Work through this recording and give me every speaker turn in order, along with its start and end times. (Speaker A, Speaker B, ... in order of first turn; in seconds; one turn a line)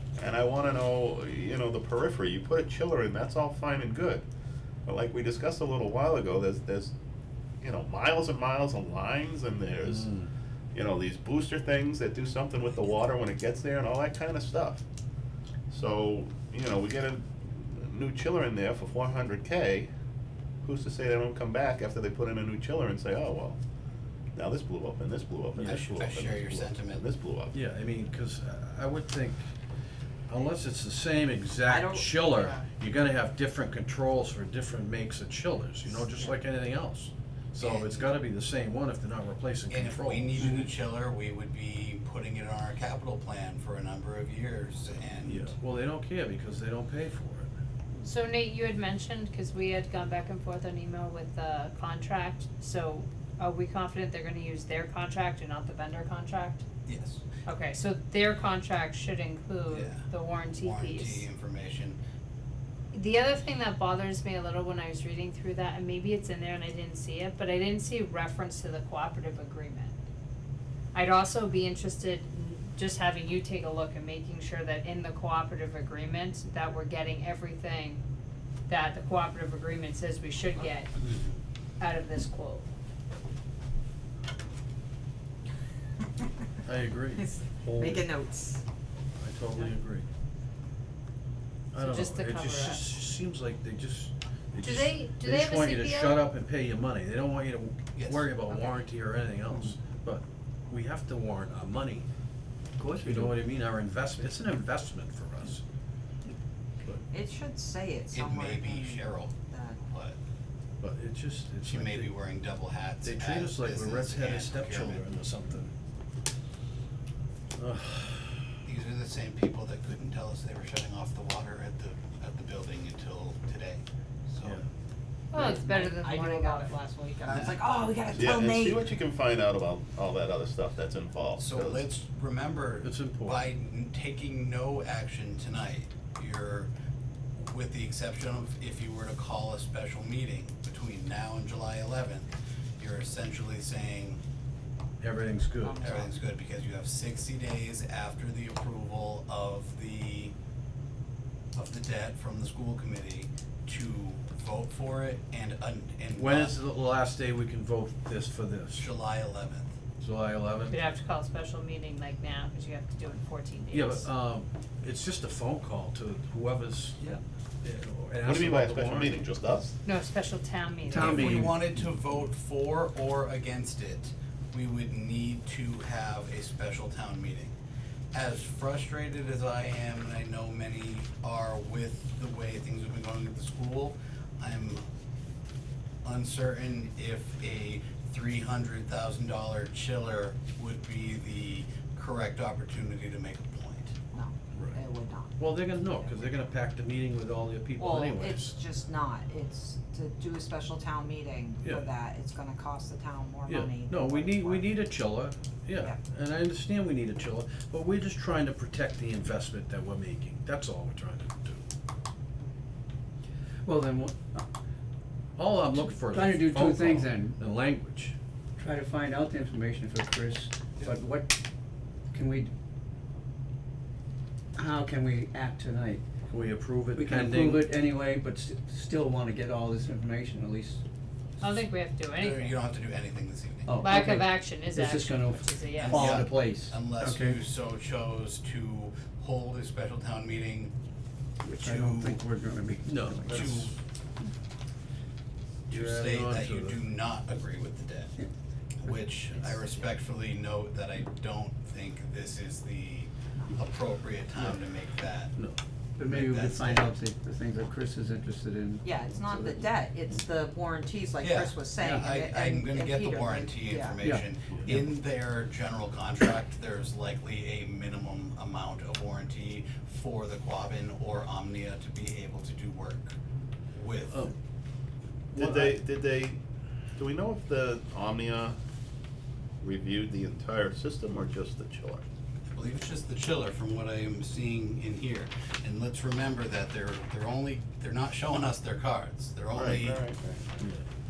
Speaker A: 0.2-4.2
Speaker A: 4.9-6.9
Speaker A: 7.6-10.1
Speaker B: 9.9-10.3
Speaker A: 10.7-14.8
Speaker A: 15.7-19.9
Speaker A: 20.6-23.6
Speaker A: 24.4-27.6
Speaker C: 25.6-27.0
Speaker B: 27.5-29.5
Speaker B: 30.3-40.6
Speaker D: 31.7-32.7
Speaker C: 37.6-38.2
Speaker C: 39.7-45.6
Speaker B: 45.2-47.5
Speaker E: 48.0-56.6
Speaker C: 56.9-57.2
Speaker E: 57.5-61.3
Speaker C: 59.7-62.0
Speaker E: 62.9-70.0
Speaker E: 70.9-78.0
Speaker E: 78.7-80.9
Speaker E: 81.8-82.7
Speaker B: 86.7-88.1
Speaker D: 87.2-88.6
Speaker B: 89.2-90.1
Speaker B: 91.7-102.0
Speaker E: 91.8-92.8
Speaker E: 94.6-96.2
Speaker C: 97.9-98.4
Speaker D: 98.5-98.8
Speaker F: 102.8-103.4
Speaker B: 103.0-105.6
Speaker D: 107.1-109.8
Speaker C: 108.1-110.2
Speaker B: 110.8-112.1
Speaker C: 111.6-115.1
Speaker B: 113.0-115.7
Speaker B: 117.6-118.5
Speaker C: 118.7-124.6
Speaker E: 125.3-126.8
Speaker D: 125.4-128.8
Speaker C: 127.3-127.5
Speaker A: 128.1-131.8
Speaker C: 131.4-136.7
Speaker B: 132.8-133.5
Speaker C: 137.4-144.2
Speaker B: 145.0-145.9
Speaker D: 145.6-146.2
Speaker C: 145.8-150.3
Speaker C: 151.5-156.6
Speaker B: 156.2-158.9
Speaker C: 158.7-159.7
Speaker B: 160.0-160.8
Speaker E: 160.7-164.1
Speaker B: 163.7-169.2
Speaker A: 168.2-169.8
Speaker E: 169.8-171.5
Speaker F: 170.8-171.9
Speaker C: 170.9-177.6
Speaker B: 171.0-171.3
Speaker C: 178.1-184.8
Speaker C: 186.0-194.0
Speaker D: 194.1-196.3
Speaker B: 194.5-194.8
Speaker B: 195.4-198.6
Speaker D: 197.8-204.8
Speaker B: 203.5-211.6
Speaker F: 213.7-214.5
Speaker B: 215.4-218.2
Speaker F: 215.7-217.4
Speaker F: 218.6-221.4
Speaker F: 222.1-222.5
Speaker F: 224.6-226.0
Speaker B: 226.3-227.7
Speaker F: 226.9-230.8
Speaker E: 231.4-232.6
Speaker C: 232.2-234.0
Speaker F: 233.7-237.4
Speaker E: 233.8-236.3
Speaker C: 235.7-240.7
Speaker F: 241.4-243.7
Speaker C: 241.6-242.2
Speaker B: 242.9-243.7
Speaker C: 243.3-243.8
Speaker B: 245.7-246.8
Speaker C: 245.7-248.1
Speaker C: 248.8-255.3
Speaker D: 249.3-249.8
Speaker F: 256.0-259.7
Speaker C: 256.0-256.9
Speaker D: 258.8-264.2
Speaker C: 261.2-273.2
Speaker F: 261.8-262.1
Speaker F: 264.0-264.9
Speaker C: 273.7-274.3
Speaker B: 275.3-275.8
Speaker A: 275.4-276.4
Speaker A: 277.0-278.6
Speaker A: 279.6-282.1
Speaker C: 282.5-290.0
Speaker A: 289.5-290.6